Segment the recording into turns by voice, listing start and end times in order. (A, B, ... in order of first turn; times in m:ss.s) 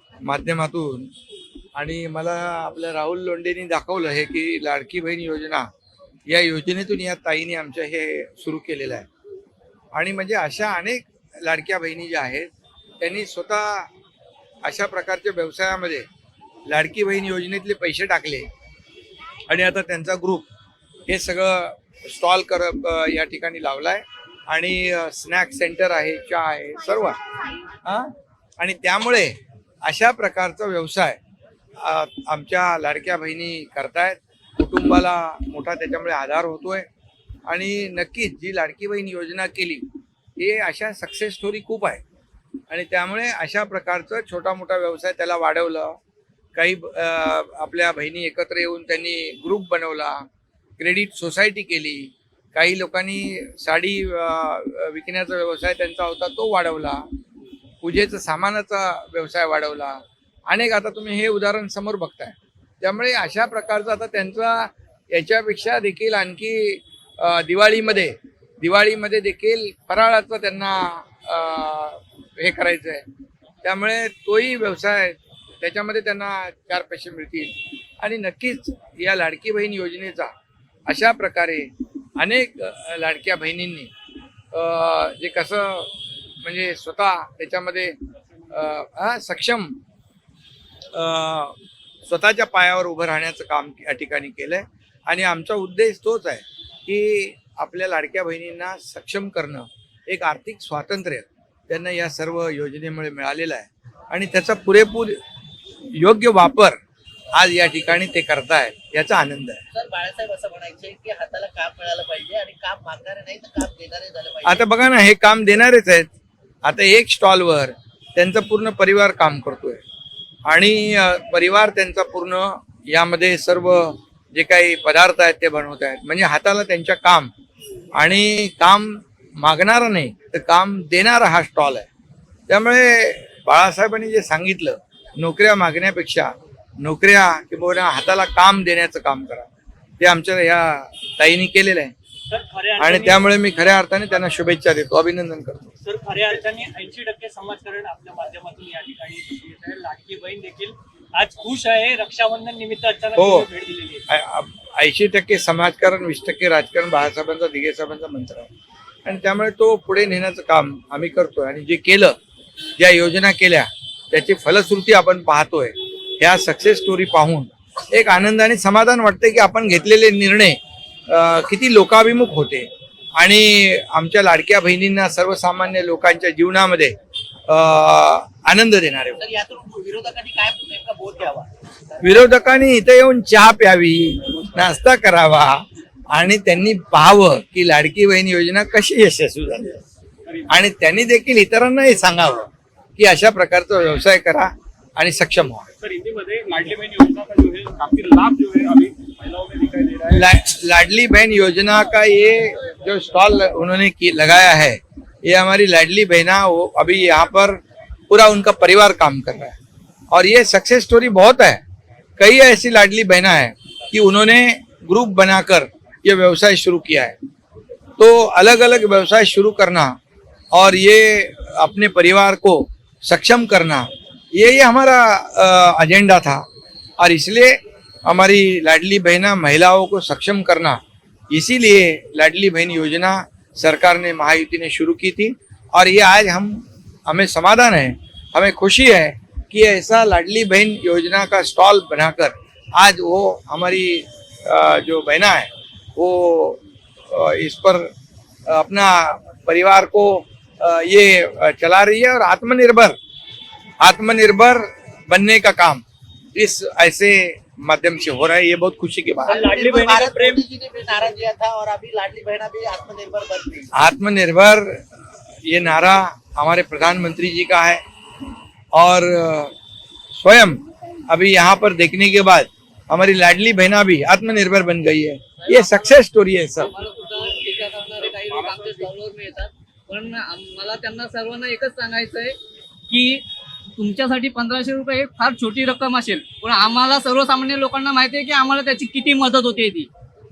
0:00.2-0:01.1 A
0:01.8-0:05.7 A
0:06.3-0:09.1 A
0:09.9-0:12.5 A
0:13.0-0:13.9 A
0:14.6-0:16.1 A
0:16.7-0:18.5 A
0:19.5-0:20.5 A
0:21.1-0:27.2 A
0:27.8-0:31.2 A
0:31.8-0:36.9 A
0:37.5-0:39.9 A
0:40.4-0:42.0 A
0:42.7-0:46.0 A
0:46.6-0:50.3 A
0:50.8-0:57.1 A
0:57.8-1:13.1 A
1:13.6-1:20.3 A
1:20.9-1:23.9 A
1:24.5-1:25.9 A
1:26.4-1:28.0 A
1:28.5-1:29.8 A
1:30.9-1:45.2 A
1:46.0-1:46.8 A
1:47.3-1:49.6 A
1:49.7-1:54.7 B
1:54.4-1:56.1 A
1:56.6-1:59.8 A
2:00.5-2:07.3 A
2:08.0-2:11.9 A
2:12.5-2:19.5 A
2:20.0-2:21.9 A
2:22.3-2:23.3 C
2:22.8-2:25.7 A
2:25.8-2:34.0 C
2:33.2-2:33.5 A
2:34.1-2:38.5 A
2:39.0-2:42.2 A
2:42.8-2:57.0 A
2:57.5-2:59.2 A
2:59.2-3:01.5 B
3:02.0-3:09.8 A
3:10.5-3:15.7 A
3:15.8-3:20.3 D
3:20.1-3:29.6 A
3:30.1-3:31.6 A
3:32.2-3:37.2 A
3:38.0-3:40.0 A
3:40.5-3:46.4 A
3:47.0-3:50.8 A
3:51.3-4:07.9 A
4:08.5-4:13.0 A
4:13.8-4:15.8 A
4:16.3-4:19.4 A
4:19.3-4:20.4 C
4:19.3-4:23.7 B
4:23.7-4:24.8 A
4:25.5-4:27.8 A
4:28.7-4:29.5 A
4:30.1-4:36.7 A
4:35.4-4:36.0 E
4:36.6-4:42.4 E
4:42.9-4:43.2 E
4:43.8-4:49.9 E